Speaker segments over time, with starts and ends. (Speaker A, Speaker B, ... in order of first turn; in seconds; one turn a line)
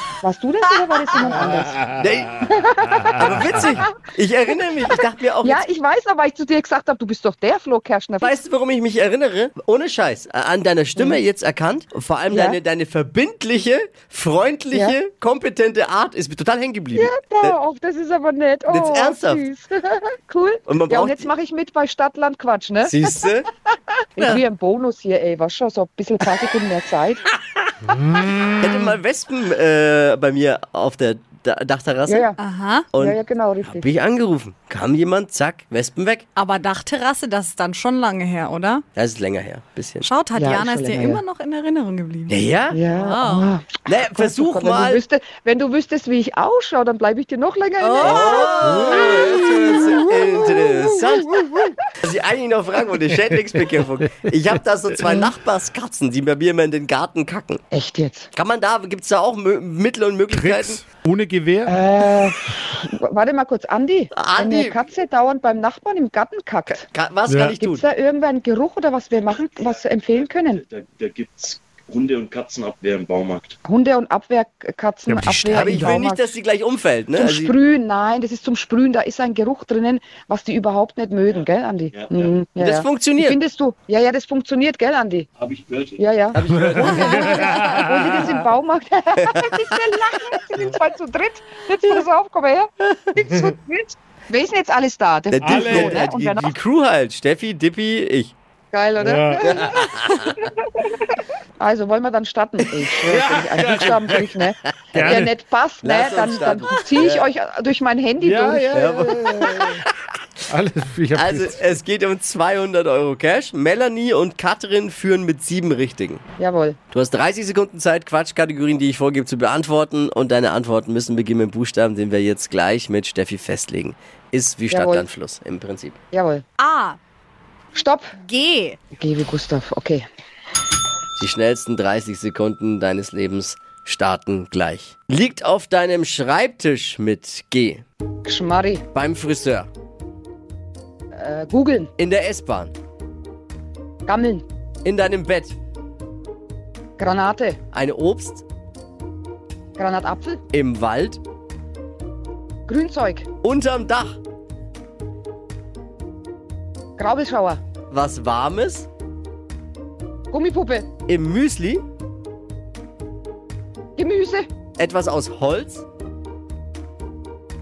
Speaker A: 0.2-3.9
Speaker B: 1.9-2.5
Speaker B: 3.2-5.6
Speaker A: 5.4-8.3
Speaker B: 8.2-17.6
Speaker A: 12.3-12.6
Speaker A: 14.7-15.0
Speaker A: 16.9-23.4
Speaker B: 18.7-19.4
Speaker B: 20.7-21.3
Speaker B: 22.8-23.5
Speaker A: 24.2-27.3
Speaker B: 28.6-32.3
Speaker A: 32.1-32.4
Speaker C: 32.4-32.9
Speaker B: 32.9-36.2
Speaker A: 33.0-33.9
Speaker C: 36.4-38.8
Speaker B: 39.0-40.1
Speaker C: 40.0-43.5
Speaker A: 40.4-41.2
Speaker B: 42.3-42.8
Speaker A: 42.7-50.6
Speaker B: 43.9-45.0
Speaker C: 47.8-48.8
Speaker B: 48.0-57.6
Speaker A: 51.3-51.7
Speaker A: 57.7-58.3
Speaker B: 58.3-60.9
Speaker D: 60.3-61.7
Speaker A: 61.7-66.8
Speaker B: 64.1-64.8
Speaker B: 66.9-67.8
Speaker D: 67.3-67.6
Speaker A: 67.6-70.6
Speaker E: 70.1-73.6
Speaker A: 73.6-76.3
Speaker D: 75.1-76.0
Speaker B: 75.5-77.5
Speaker A: 77.2-85.3
Speaker E: 81.9-82.3
Speaker B: 82.6-83.4
Speaker E: 85.4-86.0
Speaker A: 86.0-96.5
Speaker B: 86.3-87.7
Speaker D: 86.6-88.3
Speaker E: 86.7-87.1
Speaker B: 95.3-98.3
Speaker D: 95.4-96.0
Speaker A: 98.7-101.0
Speaker D: 99.0-99.4
Speaker B: 99.5-100.3
Speaker A: 101.6-109.2
Speaker D: 103.1-104.3
Speaker B: 104.9-105.2
Speaker B: 105.8-107.3
Speaker D: 108.2-109.5
Speaker B: 108.7-109.9
Speaker D: 110.5-111.6
Speaker B: 111.1-116.2
Speaker A: 116.4-116.8
Speaker B: 116.9-126.0
Speaker A: 124.7-125.1
Speaker A: 126.1-126.4
Speaker C: 126.6-127.0
Speaker A: 127.8-128.1
Speaker C: 128.1-128.8
Speaker A: 129.0-130.1
Speaker B: 131.2-137.8
Speaker A: 138.2-138.8
Speaker B: 138.9-139.7
Speaker A: 141.2-141.9
Speaker B: 142.0-142.7
Speaker A: 144.1-144.4
Speaker B: 144.8-145.5
Speaker A: 147.0-147.6
Speaker B: 147.7-148.4
Speaker A: 149.8-150.4
Speaker B: 150.5-151.2
Speaker A: 152.7-153.3
Speaker B: 153.4-154.2
Speaker A: 157.0-157.6
Speaker B: 157.9-158.9
Speaker A: 160.3-160.9
Speaker B: 161.1-161.8
Speaker A: 164.0-164.5
Speaker B: 164.8-165.8